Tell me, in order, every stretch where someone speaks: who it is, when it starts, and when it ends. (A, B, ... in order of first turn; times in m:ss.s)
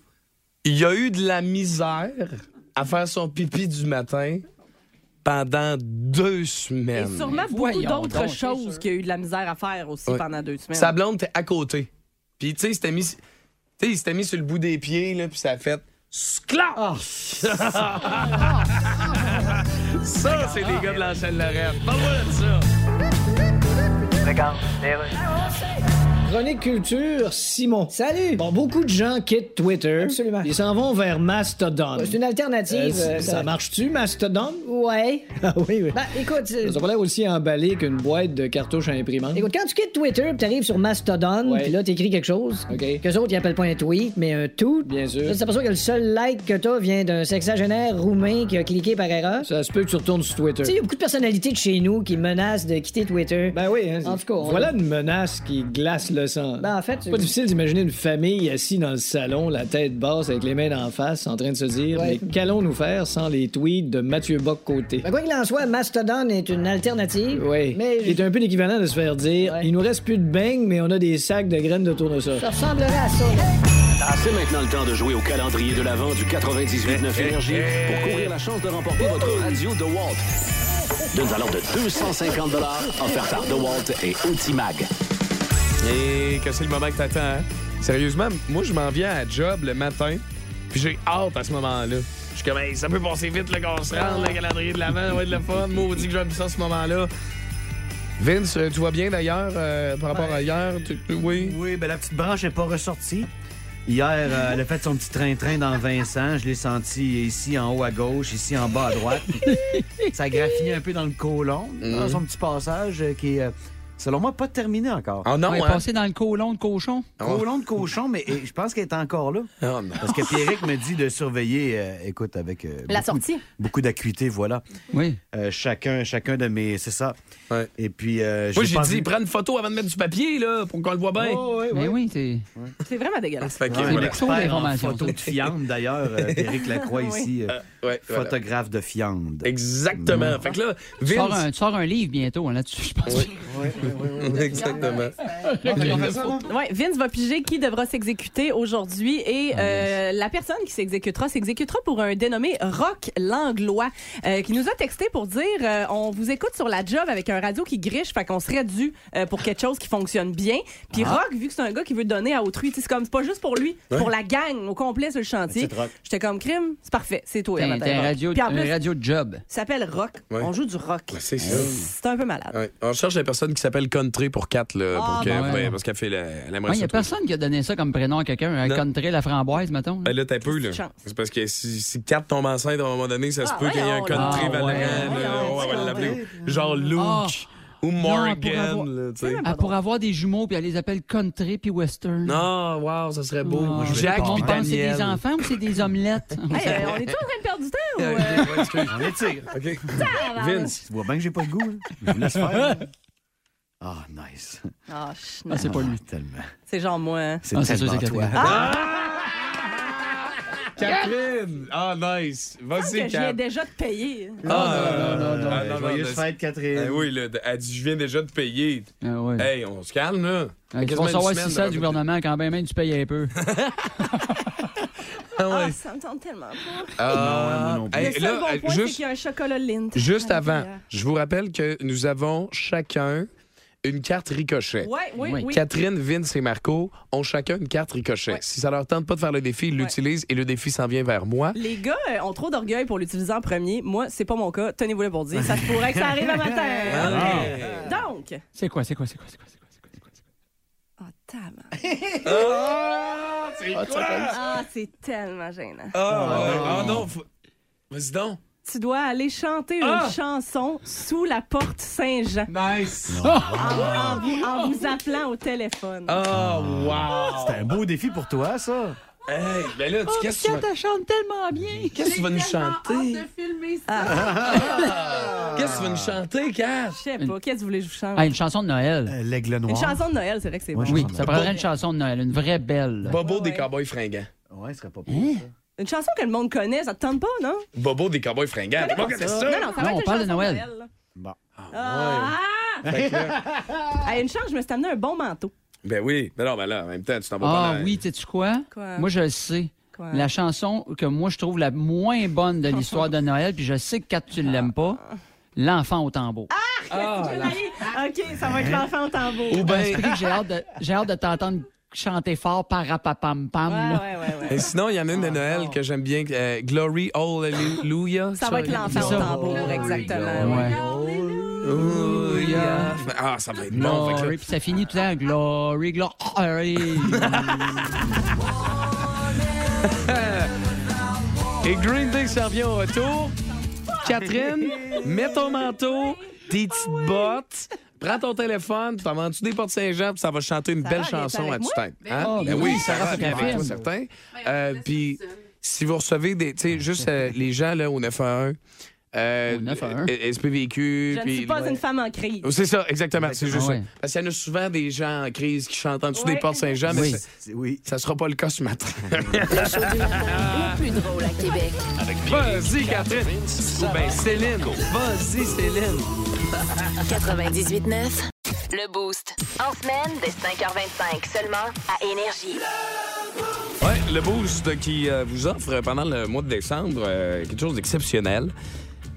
0:00.6-0:04.4 A
0:05.2-0:07.3 A
0:06.9-0:10.9 B
0:07.2-0:08.8 C
0:10.1-0:11.9 A
0:12.4-0:13.2 A
0:13.8-0:22.6 A
0:16.7-0:17.9 D
0:24.2-0:25.1 E
0:26.3-0:30.6 E
0:26.6-0:28.5 F
0:30.0-0:33.8 F
0:31.9-0:36.8 E
0:36.6-0:39.5 F
0:39.3-0:49.5 E
0:41.4-0:41.7 F
0:42.7-0:43.0 F
0:44.8-0:45.4 F
0:49.4-0:50.8 F
0:50.6-0:54.7 E
0:53.5-1:05.1 F
0:56.6-0:57.3 E
1:01.9-1:02.3 E
1:05.0-1:08.3 E
1:07.3-1:12.5 F
1:09.4-1:09.7 E
1:12.4-1:13.5 E
1:14.0-1:20.2 G
1:16.8-1:18.3 A
1:21.1-1:24.9 G
1:25.8-1:37.1 A
1:38.2-1:41.6 A
1:40.1-1:40.4 D
1:41.2-1:43.3 D
1:43.8-1:49.4 D
1:49.4-1:50.1 C
1:50.1-1:55.3 D
1:51.8-1:52.2 A
1:55.2-1:55.8 A
1:55.5-1:57.1 C
1:57.2-1:57.5 A
1:57.2-2:04.6 D
1:59.6-2:00.6 A
2:02.9-2:03.4 B
2:04.9-2:05.2 C
2:05.3-2:07.2 D
2:07.8-2:09.1 D
2:08.5-2:11.4 A
2:11.2-2:12.0 D
2:11.7-2:12.4 C
2:12.8-2:13.7 B
2:13.4-2:14.2 A
2:13.7-2:20.5 D
2:13.7-2:15.3 C
2:16.2-2:16.5 A
2:16.8-2:17.3 B
2:17.5-2:18.4 A
2:19.4-2:21.5 A
2:21.1-2:23.3 C
2:23.1-2:23.3 A
2:23.5-2:26.5 D
2:24.0-2:26.4 A
2:25.6-2:26.0 C
2:26.4-2:48.8 B
2:29.5-2:29.9 D
2:40.9-2:41.2 C
2:45.5-2:45.9 D
2:47.6-2:49.4 C
2:49.5-2:52.5 B
2:51.1-2:51.8 A
2:51.4-2:51.8 D
2:52.5-2:57.1 A
2:54.9-2:55.7 B
2:55.2-2:55.8 C
2:56.7-3:00.1 C
3:00.0-3:09.4 A
3:00.5-3:01.0 B
3:03.4-3:06.2 B
3:04.1-3:05.1 C
3:05.0-3:06.9 D
3:07.0-3:07.4 C
3:08.0-3:08.9 C
3:09.2-3:09.8 B
3:09.4-3:12.4 C
3:12.2-3:15.2 A
3:13.4-3:16.8 C
3:13.7-3:14.6 D
3:16.5-3:18.9 B
3:16.6-3:17.1 A
3:18.0-3:20.8 A
3:18.9-3:19.5 D
3:20.0-3:20.8 B
3:20.8-3:22.9 D
3:23.8-3:24.6 D
3:24.9-3:25.8 B
3:25.5-3:26.0 C
3:25.6-3:26.5 D
3:26.7-3:27.4 B
3:27.4-3:28.7 D
3:27.5-3:28.6 C
3:28.3-3:28.7 B
3:28.4-3:29.7 A
3:30.7-3:33.4 A
3:32.7-3:34.6 B
3:34.4-3:42.0 A
3:34.4-3:37.1 D
3:34.5-3:35.6 C
3:39.0-3:39.5 C
3:40.7-3:43.3 C
3:43.4-3:43.9 A
3:45.3-3:45.8 A
3:45.4-3:47.3 B
3:47.0-3:49.0 A
3:47.1-3:48.2 D
3:47.9-3:50.8 B
3:49.9-3:53.3 A
3:53.8-3:54.9 A
3:54.8-3:55.6 B
3:55.2-3:55.5 C
3:55.4-4:01.6 A
4:01.5-4:08.4 B
4:05.4-4:07.8 D
4:06.9-4:07.9 A
4:07.1-4:07.4 C
4:08.5-4:09.9 C
4:11.0-4:11.7 B
4:12.2-4:14.6 A
4:14.2-4:16.0 B
4:15.9-4:17.2 A
4:16.1-4:17.1 D
4:17.9-4:18.4 A
4:18.6-4:22.5 B
4:19.8-4:20.2 A
4:22.5-4:23.2 A
4:23.1-4:24.3 D
4:23.2-4:24.5 C
4:23.6-4:26.2 B
4:26.1-4:27.6 A
4:26.3-4:29.0 D
4:29.3-4:30.6 A
4:30.1-4:32.1 C
4:31.9-4:33.3 A
4:33.8-4:34.6 B
4:34.0-4:36.2 D
4:34.3-4:37.0 A
4:36.9-4:38.3 B
4:38.1-4:39.1 C
4:39.1-4:40.0 D
4:39.7-4:41.4 B
4:40.7-4:41.2 D
4:40.8-4:43.2 C
4:41.2-4:41.5 A
4:43.0-4:44.3 A
4:43.1-4:43.7 B
4:44.5-4:45.5 D
4:45.1-4:45.4 C
4:45.8-4:47.6 B
4:47.7-4:49.7 A
4:48.8-4:50.9 B
4:49.8-4:50.7 C
4:51.6-4:53.4 A
4:51.7-4:52.9 B
4:52.8-4:54.0 D
4:54.0-4:55.5 B
4:55.8-4:58.0 A
4:57.4-5:05.0 C
4:58.7-4:59.1 B
4:59.9-5:00.3 B
5:02.7-5:03.1 B
5:04.5-5:05.0 B
5:05.6-5:06.5 C
5:06.5-5:09.8 B
5:06.9-5:07.6 A
5:08.4-5:08.8 D
5:09.5-5:10.1 A
5:09.6-5:14.0 C
5:13.6-5:14.7 B
5:14.5-5:20.0 A
5:18.3-5:20.8 B
5:18.9-5:19.7 C
5:18.9-5:21.9 D
5:20.4-5:20.8 C
5:21.6-5:24.4 A
5:21.8-5:22.9 C
5:22.5-5:22.9 B
5:23.7-5:27.4 C
5:27.1-5:28.0 A
5:29.8-5:30.5 A
5:31.6-5:33.4 A
5:34.0-5:48.6 A
5:40.8-5:43.5 B
5:42.2-5:43.8 C
5:49.1-5:51.8 A
5:49.5-5:50.1 C
5:51.1-5:52.5 B
5:52.4-5:57.2 A
5:53.1-5:53.7 D
5:53.5-5:53.8 C
5:56.1-5:56.7 B
5:56.9-5:57.2 C
5:56.9-5:57.8 D
5:57.8-6:00.7 A
5:59.1-5:59.4 D
5:59.5-6:01.8 H
6:02.0-6:04.8 G
6:02.3-6:06.1 A
6:07.1-6:12.6 H
6:13.8-6:18.5 A